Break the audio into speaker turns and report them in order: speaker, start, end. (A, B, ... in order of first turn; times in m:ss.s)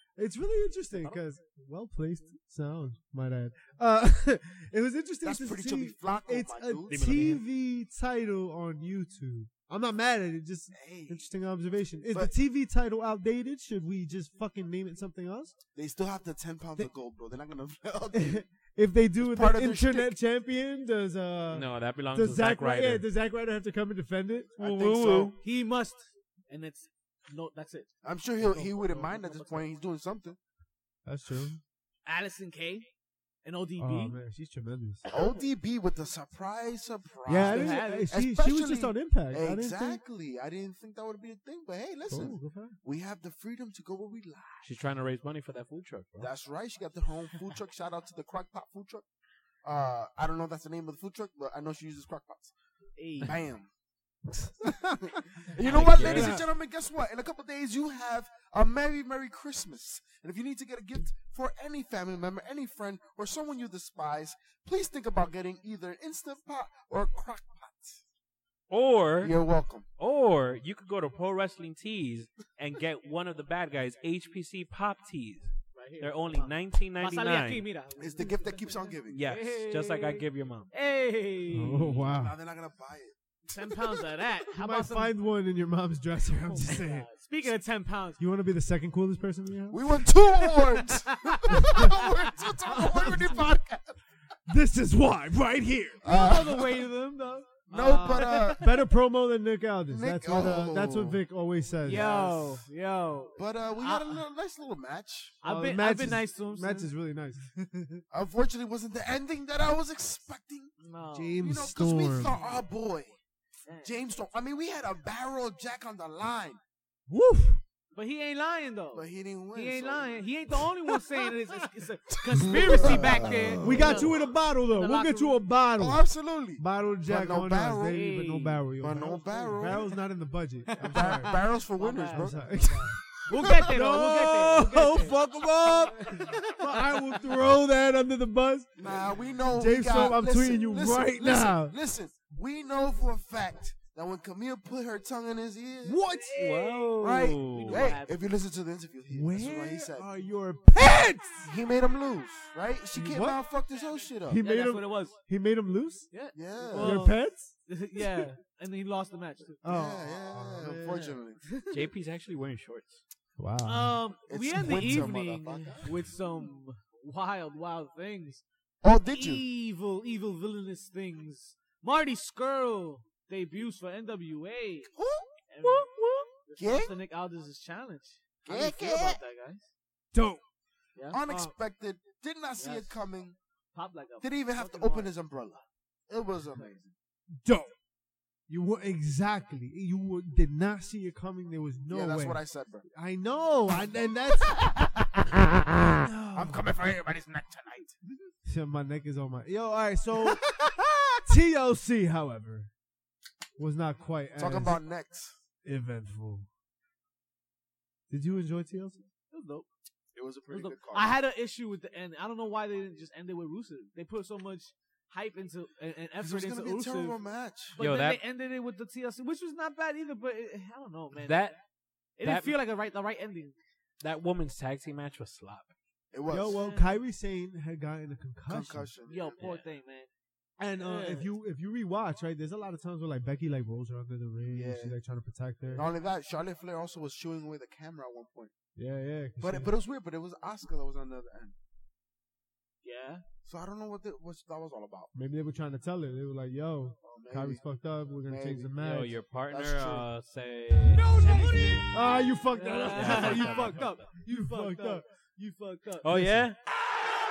0:00.2-0:15.6 A
0:00.9-0:01.2 B
0:05.2-0:07.3 C
0:06.9-0:07.4 D
0:10.7-0:11.3 C
0:15.8-0:18.4 C
0:18.1-0:24.5 A
0:19.2-0:20.1 C
0:21.5-0:23.0 D
0:24.6-0:25.4 C
0:24.6-0:25.4 D
0:25.4-0:29.7 B
0:28.0-0:30.4 C
0:31.1-0:31.6 A
0:32.0-0:32.9 B
0:33.4-0:34.2 B
0:33.8-0:35.0 A
0:35.1-0:44.7 C
0:37.3-0:40.0 A
0:37.4-0:38.1 B
0:42.1-0:42.8 A
0:44.6-0:46.3 D
0:46.2-0:49.0 C
0:49.6-0:52.5 C
0:53.0-0:53.4 B
0:53.2-0:53.7 C
0:54.6-1:08.0 C
0:54.7-0:55.2 A
0:55.6-0:56.4 D
0:55.8-0:56.5 A
1:08.7-1:09.4 D
1:09.2-1:09.8 C
1:10.0-1:17.6 D
1:15.7-1:22.0 B
1:18.0-1:19.2 C
1:19.1-1:20.7 D
1:21.5-1:22.4 A
1:22.0-1:23.9 C
1:23.5-1:25.2 B
1:24.5-1:27.5 A
1:26.5-1:28.2 B
1:28.2-1:30.1 A
1:29.7-1:34.0 C
1:30.4-1:32.4 B
1:32.7-1:33.4 A
1:34.5-1:36.1 A
1:36.0-1:36.9 C
1:36.0-1:38.8 B
1:37.7-1:38.7 C
1:37.8-1:42.1 A
1:39.9-1:41.2 C
1:41.8-1:44.2 B
1:41.9-1:42.6 C
1:43.4-1:45.4 C
1:45.4-1:46.9 B
1:45.4-1:48.0 A
1:48.1-1:50.7 C
1:50.8-1:51.4 B
1:51.1-1:52.4 A
1:51.4-1:53.2 C
1:53.6-1:54.0 B
1:53.8-1:56.6 C
1:57.1-1:57.6 A
1:57.9-2:05.4 B
1:58.9-2:00.2 C
2:02.2-2:04.2 C
2:02.4-2:06.0 A
2:05.8-2:08.1 C
2:06.6-2:11.4 A
2:07.9-2:08.6 B
2:08.8-2:09.9 C
2:09.2-2:10.0 B
2:10.7-2:16.5 B
2:10.8-2:13.6 C
2:12.1-2:21.8 A
2:18.8-2:26.0 C
2:25.8-2:26.8 A
2:26.3-2:28.0 D
2:26.4-2:26.8 B
2:27.0-2:30.1 C
2:27.4-2:28.3 B
2:29.1-2:31.6 A
2:31.4-2:34.4 C
2:33.0-2:33.4 A
2:34.2-2:36.1 A
2:34.4-2:35.2 B
2:36.1-2:39.6 B
2:36.3-2:37.1 C
2:36.7-2:37.5 A
2:39.6-2:41.6 A
2:39.6-2:41.5 C
2:41.7-2:43.0 D
2:43.4-2:44.0 A
2:43.6-2:48.4 B
2:44.3-2:45.9 C
2:44.5-2:45.1 A
2:48.8-2:49.4 C
2:49.0-2:54.9 B
2:55.0-2:55.3 C
2:55.5-2:59.7 B
2:55.7-2:56.2 A
2:56.6-2:56.9 C
2:58.4-2:59.2 C
3:00.1-3:00.4 A
3:01.1-3:03.4 C
3:01.3-3:01.6 A
3:02.6-3:03.0 B
3:03.7-3:05.1 B
3:04.2-3:06.9 C
3:07.4-3:07.7 A
3:08.5-3:14.7 A
3:11.9-3:12.9 C
3:14.4-3:15.4 C
3:15.9-3:16.7 A
3:16.3-3:18.3 C
3:18.5-3:22.7 A
3:23.6-3:24.8 A
3:24.4-3:25.4 C
3:25.6-3:26.5 A
3:28.1-3:29.0 A
3:29.3-3:29.7 B
3:30.1-3:31.2 C
3:30.5-3:37.2 B
3:36.2-3:37.8 C
3:37.8-3:41.5 B
3:37.8-3:38.2 D
3:41.2-3:41.6 D
3:42.2-3:43.6 B
3:42.2-3:42.6 D
3:44.0-3:45.7 D
3:46.1-3:46.6 C
3:46.3-3:48.9 A
3:46.4-3:47.0 B
3:48.5-3:49.6 C
3:49.1-3:50.1 B
3:50.6-3:55.9 A
3:50.8-3:51.3 B
3:54.5-3:55.0 C
3:55.7-3:58.5 C
3:58.8-3:59.7 A
3:59.4-4:01.6 C
4:02.8-4:03.2 B
4:03.4-4:05.1 C
4:05.1-4:09.2 A
4:07.0-4:07.6 C
4:08.3-4:08.8 C
4:08.8-4:11.3 D
4:09.5-4:10.1 C
4:10.9-4:11.9 B
4:11.9-4:15.0 A
4:12.5-4:16.2 B
4:12.9-4:14.1 D
4:16.0-4:16.6 D
4:16.1-4:16.5 A